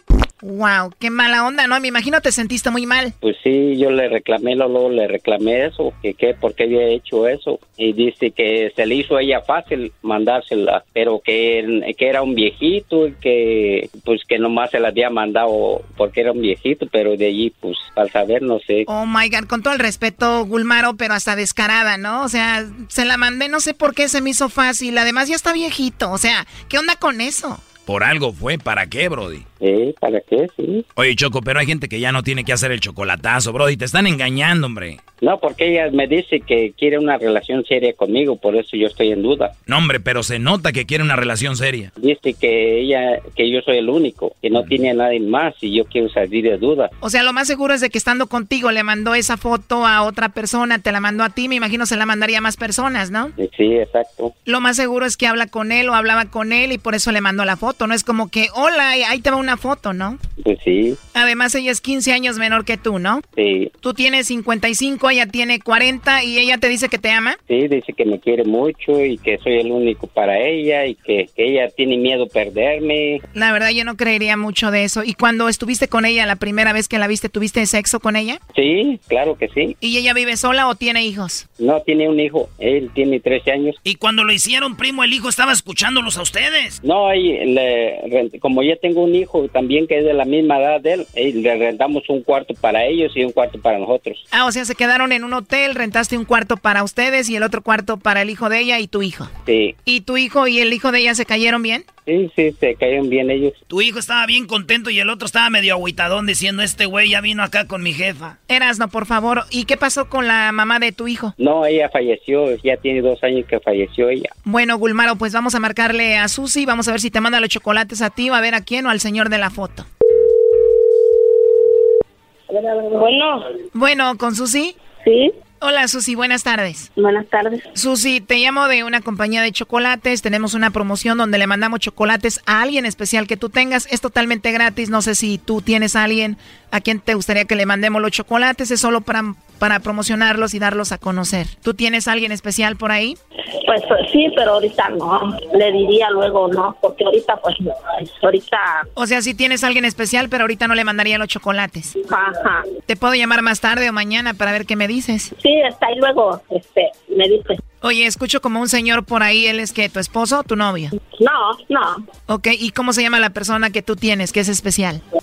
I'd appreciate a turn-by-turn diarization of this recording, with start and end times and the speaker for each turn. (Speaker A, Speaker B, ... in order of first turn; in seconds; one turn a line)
Speaker A: 0.4-3.1
Speaker B: 3.2-18.9
Speaker A: 18.9-27.6
Speaker C: 27.9-29.4
Speaker B: 29.6-30.8
Speaker C: 30.9-35.0
Speaker B: 35.2-39.5
Speaker C: 39.7-41.9
Speaker B: 42.0-46.9
Speaker A: 47.0-53.3
Speaker B: 53.4-54.3
Speaker A: 54.5-60.2
Speaker B: 60.4-61.0
Speaker A: 61.1-63.2
Speaker B: 63.4-63.7
Speaker A: 63.8-67.4
Speaker B: 67.5-73.2
Speaker A: 73.3-78.4
Speaker B: 78.5-79.7
Speaker A: 79.8-81.4
Speaker B: 81.6-83.8
Speaker D: 83.8-86.8
Speaker B: 86.8-94.2
Speaker A: 94.3-99.3
Speaker B: 99.5-99.8
Speaker A: 99.8-101.8
Speaker B: 102.0-103.5
Speaker D: 103.7-108.4
Speaker A: 108.5-111.3
Speaker B: 111.4-114.3
Speaker A: 114.4-119.9
Speaker E: 122.5-123.4
Speaker A: 123.7-124.8
Speaker E: 125.0-125.3
Speaker A: 125.6-126.9
Speaker E: 127.0-127.6
Speaker A: 127.7-143.2
Speaker E: 143.7-148.9
Speaker A: 148.9-151.9
Speaker E: 152.0-152.7
Speaker A: 152.9-155.3
Speaker E: 155.3-157.6
Speaker A: 157.8-160.9
Speaker E: 161.1-162.0
Speaker A: 162.3-165.0